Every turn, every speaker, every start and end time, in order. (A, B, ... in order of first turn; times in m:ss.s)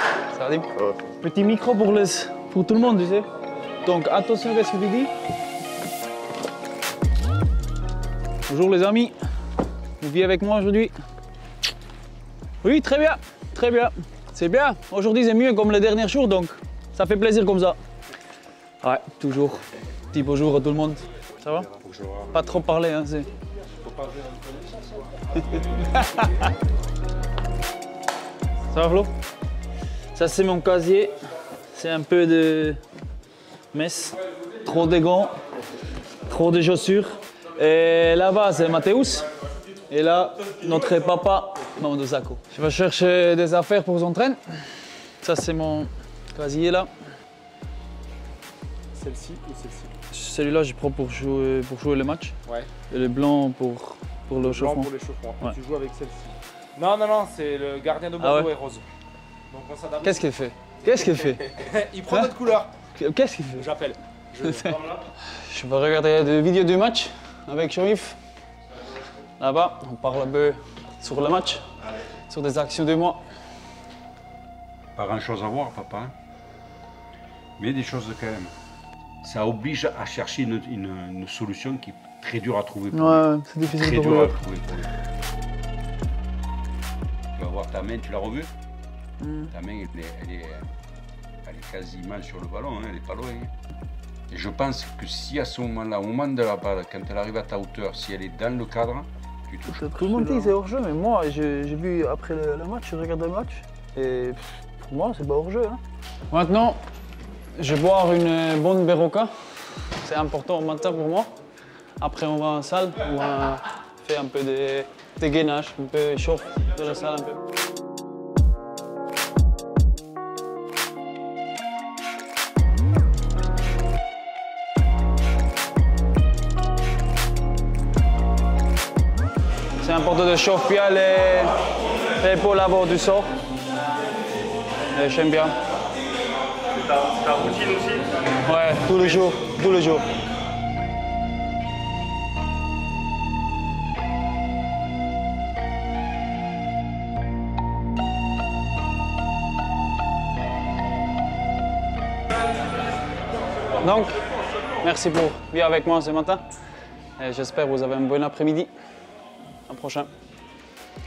0:00.3-0:03.3 A
0:03.8-0:05.1 A
0:08.5-0:09.1 A
0:10.0-0:10.9 A
0:12.6-0:17.8 A
0:18.8-0:21.7 A
0:21.7-0:22.4 B
0:22.3-0:23.3 A
0:23.9-0:24.2 B
0:25.4-0:26.5 A
0:28.7-0:29.1 A
0:30.1-0:31.1 A
0:31.7-0:32.8 A
0:33.7-0:35.4 A
0:36.2-0:39.3 A
0:39.9-0:46.9 A
0:48.9-0:49.9 C
0:50.1-0:52.3 A
0:52.9-0:54.9 A
0:54.4-0:58.8 C
0:58.2-0:58.5 A
0:59.5-1:00.3 C
1:00.0-1:01.6 A
1:01.5-1:02.7 C
1:02.1-1:02.3 A
1:03.0-1:03.7 A
1:03.6-1:05.0 C
1:04.4-1:08.2 A
1:09.4-1:11.6 A
1:12.3-1:13.2 A
1:15.0-1:16.1 B
1:17.6-1:18.5 B
1:19.2-1:24.9 B
1:22.9-1:24.4 A
1:27.3-1:28.5 B
1:29.2-1:29.5 A
1:29.5-1:30.7 B
1:31.4-1:33.5 B
1:34.3-1:39.9 B
1:39.8-1:46.8 A
1:47.6-1:49.3 A
1:50.0-1:51.3 A
1:52.0-1:57.4 A
2:09.8-2:11.5 A
2:12.2-2:13.3 A
2:14.9-2:15.6 A
2:18.4-2:20.0 A
2:33.8-2:36.4 A
2:37.2-2:38.7 A
2:39.7-2:40.1 A